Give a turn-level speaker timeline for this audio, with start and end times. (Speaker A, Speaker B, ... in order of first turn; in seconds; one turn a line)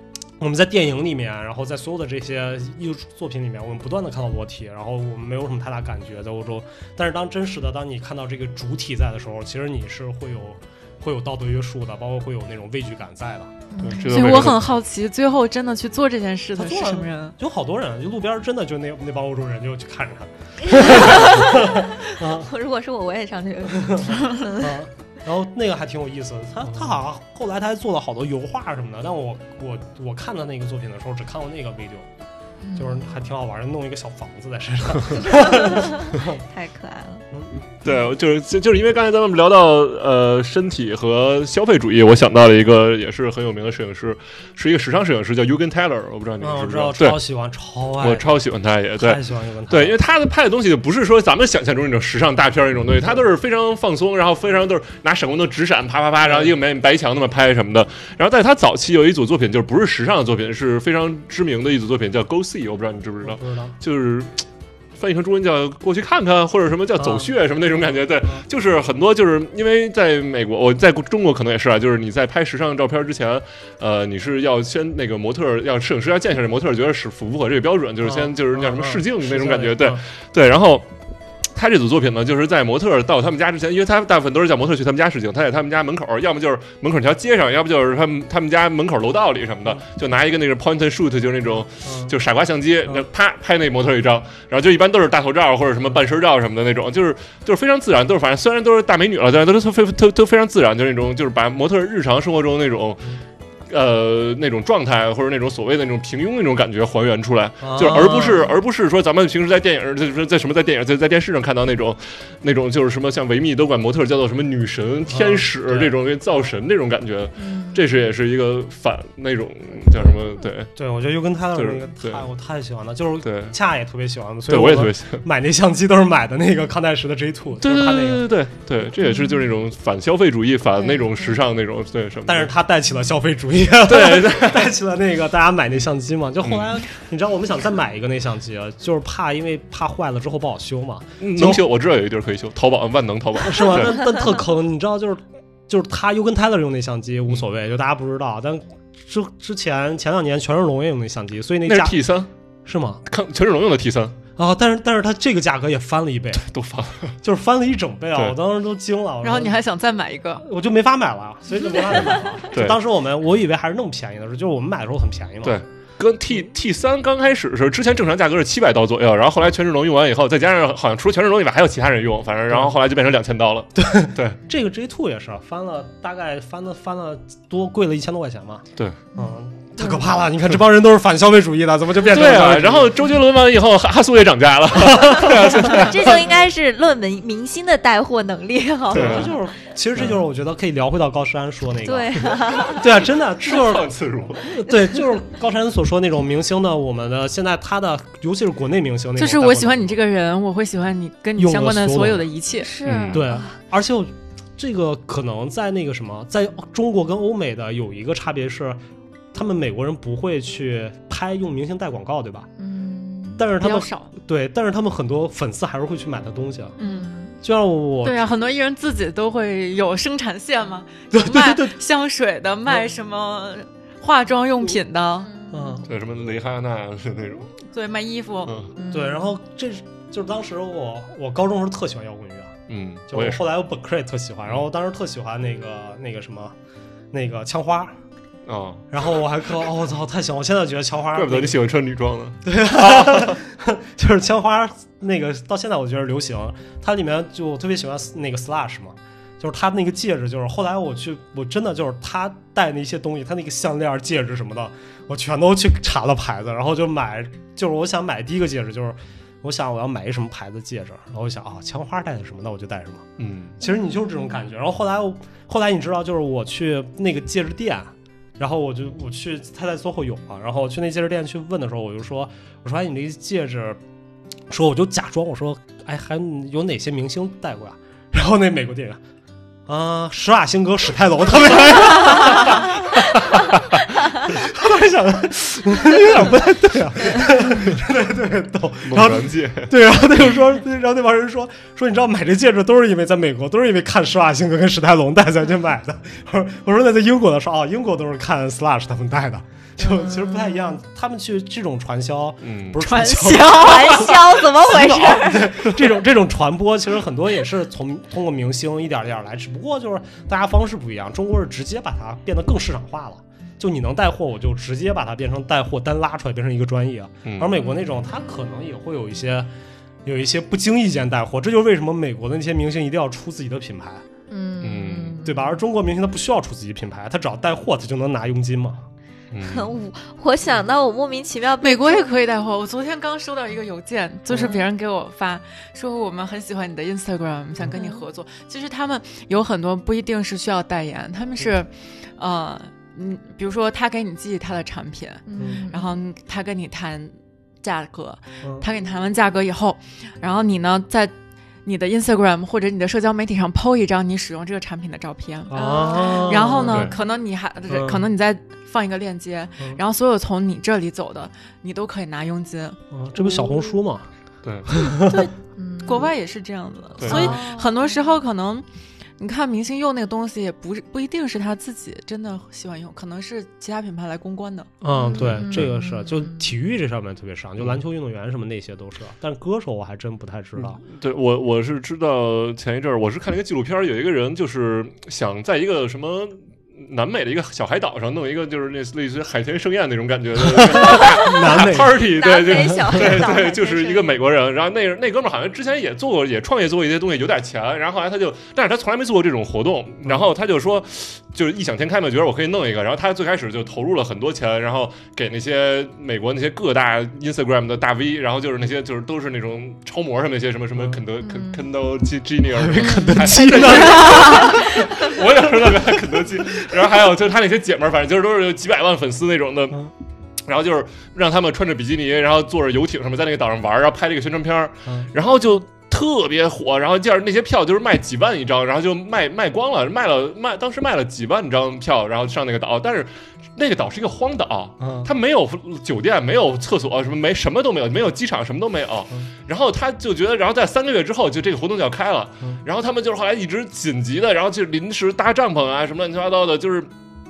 Speaker A: 0.4-13.6
Speaker B: 13.7-14.3
Speaker C: 13.8-14.7
Speaker D: 14.1-17.4
Speaker A: 16.6-22.5
Speaker B: 20.7-24.7
Speaker A: 23.7-32.1
Speaker B: 32.7-33.1
Speaker A: 32.8-36.4
Speaker B: 35.3-37.2
Speaker A: 37.3-37.6
Speaker C: 37.8-47.2
Speaker A: 46.4-48.3
Speaker C: 48.0-64.4
Speaker A: 49.0-50.0
Speaker A: 56.2-56.5
Speaker A: 63.2-63.8
Speaker C: 65.0-80.9
Speaker A: 67.0-67.3
Speaker A: 78.0-80.0
Speaker C: 81.5-103.0
Speaker A: 91.8-92.1
Speaker C: 103.7-120.7
Speaker A: 107.6-108.5
Speaker A: 115.1-116.0
Speaker B: 117.4-117.8
Speaker A: 120.7-128.2
Speaker C: 121.5-122.2
Speaker C: 123.2-123.5
Speaker C: 124.5-125.2
Speaker C: 127.6-132.5
Speaker B: 129.0-129.4
Speaker B: 130.8-131.4
Speaker A: 132.2-141.7
Speaker C: 133.8-134.7
Speaker C: 141.2-144.0
Speaker A: 143.4-152.0
Speaker C: 151.7-152.3
Speaker A: 152.7-153.0
Speaker C: 153.1-154.2
Speaker A: 154.3-156.4
Speaker C: 156.3-157.1
Speaker A: 157.2-159.6
Speaker D: 159.2-160.4
Speaker A: 160.4-165.6
Speaker C: 162.5-162.8
Speaker C: 165.4-174.4
Speaker A: 172.5-172.7
Speaker A: 173.8-178.6
Speaker A: 179.2-183.0
Speaker C: 182.0-186.2
Speaker A: 184.8-186.1
Speaker B: 185.6-189.4
Speaker A: 188.9-200.0
Speaker C: 188.9-189.3
Speaker B: 191.8-192.9
Speaker C: 193.4-194.5
Speaker D: 199.2-202.7
Speaker A: 201.4-202.3
Speaker B: 202.6-203.6
Speaker C: 202.8-203.2
Speaker A: 203.1-208.8
Speaker A: 209.3-212.5
Speaker B: 212.6-213.4
Speaker A: 213.4-216.7
Speaker D: 213.6-214.1
Speaker D: 216.8-217.1
Speaker B: 216.8-217.4
Speaker A: 217.4-218.3
Speaker D: 218.0-225.3
Speaker A: 221.1-221.8
Speaker B: 225.2-225.8
Speaker A: 225.5-225.8
Speaker C: 225.8-227.5
Speaker D: 227.7-228.5
Speaker C: 228.4-228.7
Speaker B: 228.8-229.3
Speaker A: 228.9-232.6
Speaker C: 232.7-233.4
Speaker A: 233.1-236.6
Speaker A: 237.1-238.0
Speaker C: 238.5-238.8
Speaker A: 238.9-241.6
Speaker C: 241.1-243.4
Speaker A: 242.4-263.1
Speaker C: 263.2-263.6
Speaker A: 263.6-273.8
Speaker A: 274.5-279.0
Speaker A: 279.7-319.5
Speaker C: 288.8-289.7
Speaker B: 299.9-300.6
Speaker C: 302.4-302.8
Speaker D: 302.8-304.2
Speaker B: 303.4-305.7
Speaker C: 317.2-317.6
Speaker A: 320.0-324.0
Speaker B: 324.3-325.6
Speaker C: 324.6-325.2
Speaker A: 325.2-328.9
Speaker C: 329.3-329.7
Speaker B: 329.4-332.1
Speaker D: 331.6-351.1
Speaker B: 334.3-334.6
Speaker B: 337.7-338.0
Speaker B: 345.3-345.9
Speaker D: 351.6-362.8
Speaker A: 355.5-356.9
Speaker B: 355.5-356.9
Speaker C: 356.7-356.9
Speaker A: 357.7-358.1
Speaker A: 362.9-364.1
Speaker C: 364.4-364.7
Speaker A: 364.6-365.3
Speaker D: 364.9-368.6
Speaker B: 365.6-366.1
Speaker C: 367.0-367.3
Speaker B: 367.0-368.1
Speaker A: 367.1-367.4
Speaker D: 369.2-374.7
Speaker A: 374.8-380.8
Speaker B: 374.9-376.5
Speaker C: 380.6-419.8
Speaker A: 390.4-393.3
Speaker B: 391.0-394.2
Speaker A: 410.7-411.0
Speaker B: 411.2-411.7
Speaker A: 412.5-414.6
Speaker B: 412.8-415.1
Speaker C: 420.4-446.9
Speaker A: 434.8-435.1